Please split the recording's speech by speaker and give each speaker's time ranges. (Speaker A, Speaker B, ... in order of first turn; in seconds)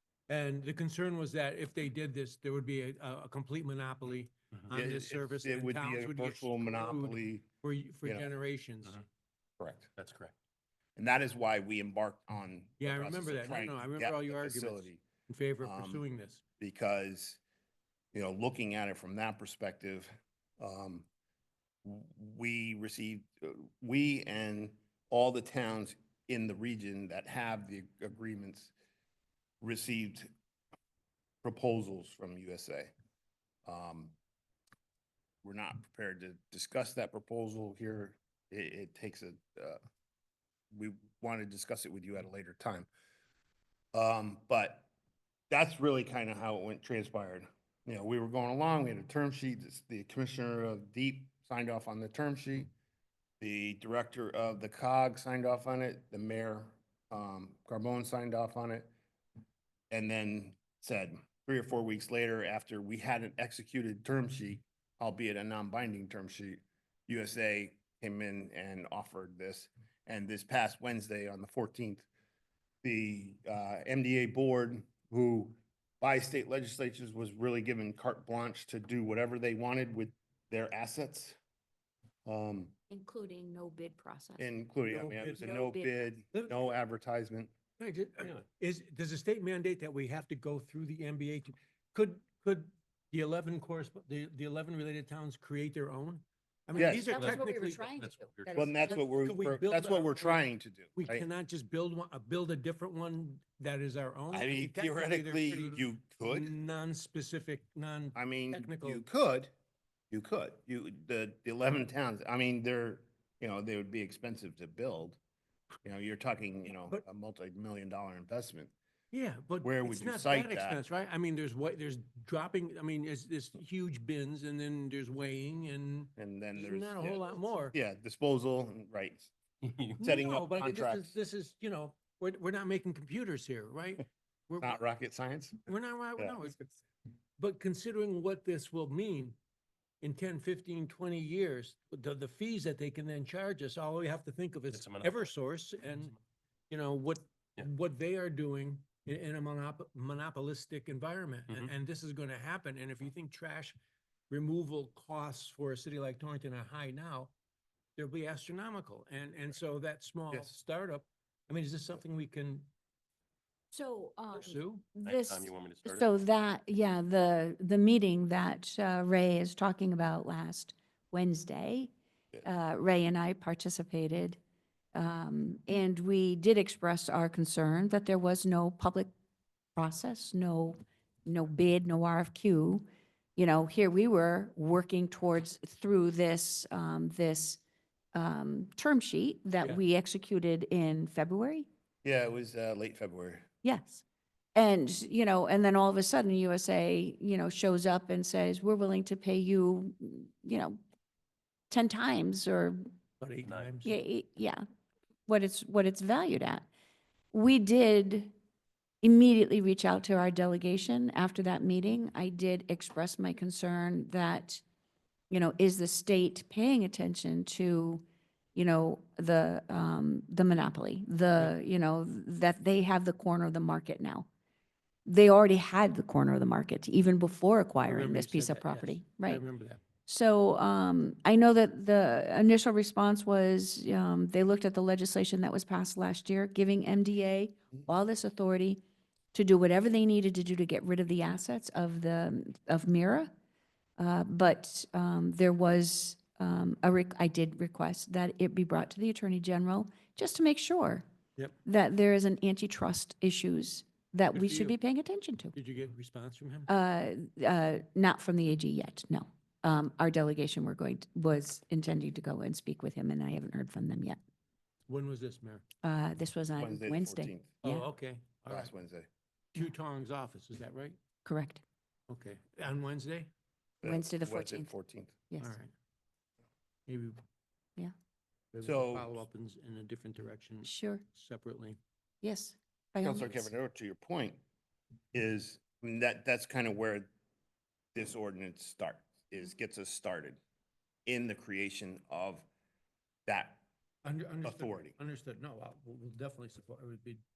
Speaker A: 0.3-9.0, 12.8-16.4, 84.8-85.5, 87.8-100.4, 101.0-109.0, 119.1-127.8, 130.0-134.8, 135.7-136.7, 137.4-139.4, 140.0-146.1, 146.7-153.8, 154.3-157.3, 157.9-162.7, 164.3-164.8, 203.2-204.0, 227.8-229.8, 254.3-254.8, 255.5-256.7, 264.9-265.6, 267.6-268.7, 269.5-271.0, 272.1-273.3, 275.4-275.7, 276.9-277.2, 278.5-281.8, 294.0-297.2
Speaker B: 4.7-7.4, 9.6-9.9, 11.0-15.0, 15.6-16.0, 16.6-17.4, 18.1-21.1, 21.8-28.7, 29.6-30.3, 31.4-32.9, 33.6-34.1, 35.4-39.8, 40.7-42.9, 43.9-44.9, 45.5-52.7, 53.4-58.9, 59.9-72.1, 72.8-81.4, 82.2-82.7, 84.4-87.5, 96.8-97.2, 98.5-101.3, 104.3-106.5, 108.1-109.5, 110.1-115.2, 115.8-118.7, 119.6-120.8, 126.2-129.3, 130.0-131.1, 134.6-135.6, 192.0-193.4, 266.6-267.5, 268.5-269.1, 273.8-275.2, 278.6-279.1, 283.0-284.4, 285.1-287.1, 287.9-290.4, 291.1-292.4, 293.3-293.6, 294.4-294.9
Speaker C: 10.0-10.3, 97.1-98.7, 144.7-145.3, 165.0-166.1
Speaker D: 82.9-84.5, 85.4-86.0, 97.1-98.9, 163.7-171.9, 172.4-174.4, 174.9-179.1, 179.8-182.8, 183.3-187.6, 188.1-191.7, 193.6-194.0, 194.5-200.8, 201.7-202.8, 203.8-204.6, 205.3-206.7, 207.3-208.3, 209.0-214.6, 215.3-218.0, 218.5-224.3, 225.1-229.4, 230.1-238.8, 239.3-243.3, 244.0-251.0, 251.6-255.5, 256.7-264.2, 265.8-267.9, 271.2-271.6, 273.8-274.7, 275.3-275.6, 280.6-281.0, 282.2-283.5